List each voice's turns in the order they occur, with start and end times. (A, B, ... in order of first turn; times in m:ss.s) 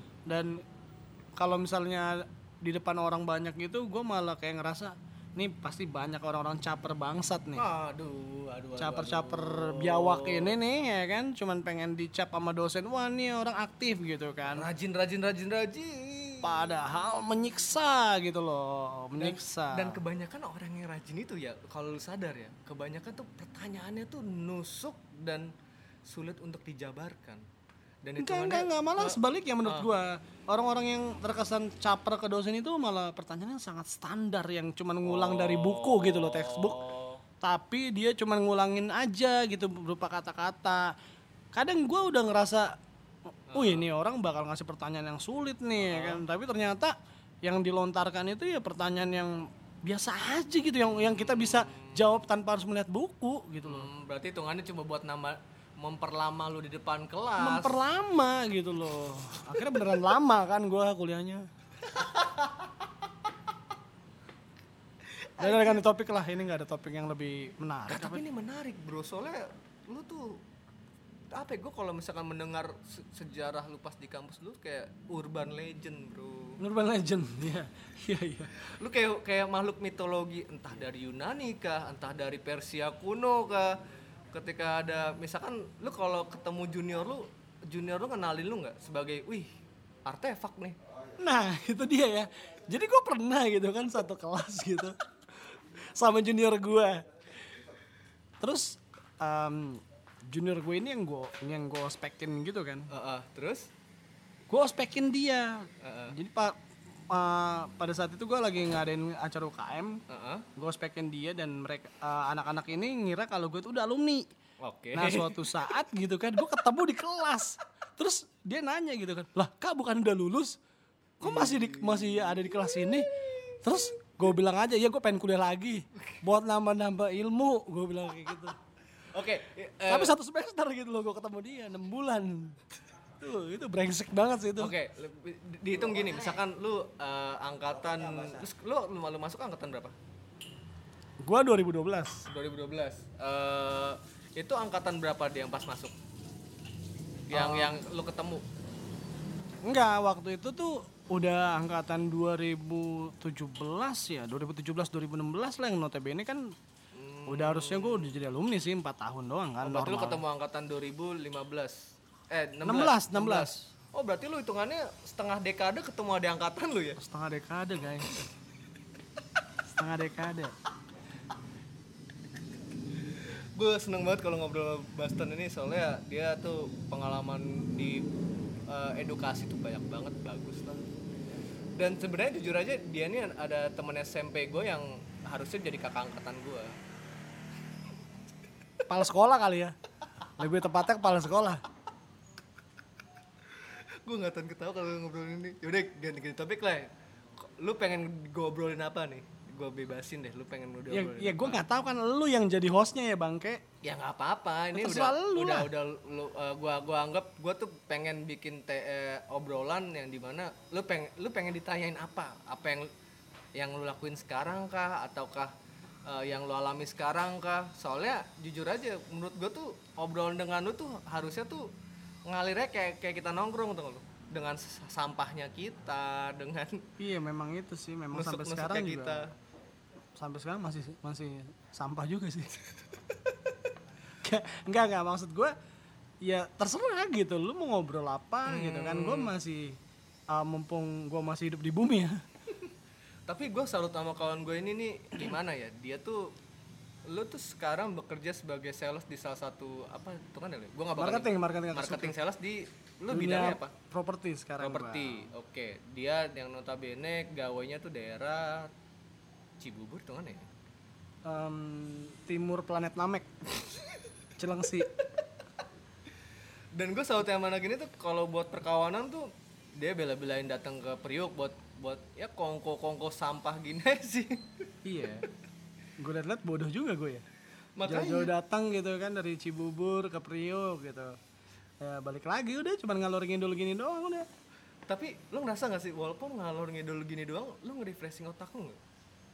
0:00.3-0:00.6 A
0:01.4-0:07.7 A
0:07.6-0:10.5 B
0:08.8-0:14.7 A
0:14.5-0:16.7 B
0:16.4-0:20.0 A
0:19.2-0:25.5 B
0:26.1-0:27.4 B
0:28.0-0:29.9 B
0:28.2-0:36.8 A
0:35.0-0:37.2 B
0:37.4-0:40.9 A
0:41.5-0:42.7 A
0:43.5-0:43.9 B
0:43.5-0:53.9 A
0:45.8-0:46.2 B
0:50.9-0:52.0 B
0:53.6-0:57.8 B
0:57.4-1:01.5 A
1:01.9-1:02.7 B
1:05.0-1:05.8 B
1:05.4-1:08.2 A
1:07.9-1:10.4 B
1:11.3-1:16.6 B
1:16.6-1:18.5 A
1:18.5-1:23.7 B
1:24.3-1:29.5 B
1:30.1-1:30.8 B
1:31.2-1:35.0 A
1:35.6-1:37.1 A
1:38.4-1:42.9 A
1:42.9-1:43.7 B
1:44.5-1:46.5 A
1:45.8-1:46.2 B
1:47.1-1:50.0 A
1:50.1-1:50.5 B
1:50.6-1:54.3 A
1:54.6-1:55.7 B
1:54.9-2:00.6 A
2:01.2-2:03.1 A
2:01.2-2:03.9 B
2:03.6-2:08.6 A
2:09.1-2:10.1 B
2:09.9-2:12.6 A
2:13.2-2:14.7 A
2:14.6-2:19.9 B
2:21.2-2:22.2 A
2:22.3-2:25.9 B
2:27.3-2:28.4 B
2:27.3-2:27.8 A
2:29.7-2:36.4 A
2:36.9-2:38.1 B
2:37.3-2:40.2 A
2:39.6-2:41.8 B
2:42.3-2:47.0 B
2:42.6-2:43.7 A
2:47.0-2:48.2 A
2:49.7-2:50.5 A
2:53.0-2:58.0 B
2:58.7-3:00.8 B
3:01.8-3:06.7 B
3:08.9-3:09.8 A
3:10.4-3:11.6 A
3:13.5-3:16.9 B
3:17.4-3:21.6 B
3:20.9-3:23.6 A
3:23.8-3:32.9 B
3:24.7-3:25.7 A
3:33.6-3:35.5 B
3:36.1-3:41.6 B
3:42.3-3:46.8 B
3:47.0-3:49.2 A
3:48.1-3:49.3 B
3:50.2-3:52.6 A
3:54.2-3:55.6 A
3:56.2-3:59.8 A
3:58.5-3:59.3 B
4:00.3-4:02.2 A
4:03.3-4:06.2 B
4:07.1-4:13.7 B
4:11.0-4:12.2 A
4:13.1-4:15.3 A
4:14.6-4:18.7 B
4:19.6-4:20.5 B
4:21.3-4:23.7 A
4:24.4-4:24.9 A
4:26.8-4:34.7 B
4:34.8-4:35.3 A
4:36.0-4:37.2 A
4:37.8-4:38.3 B
4:37.9-4:41.2 A
4:41.8-4:44.3 A
4:44.9-4:48.8 B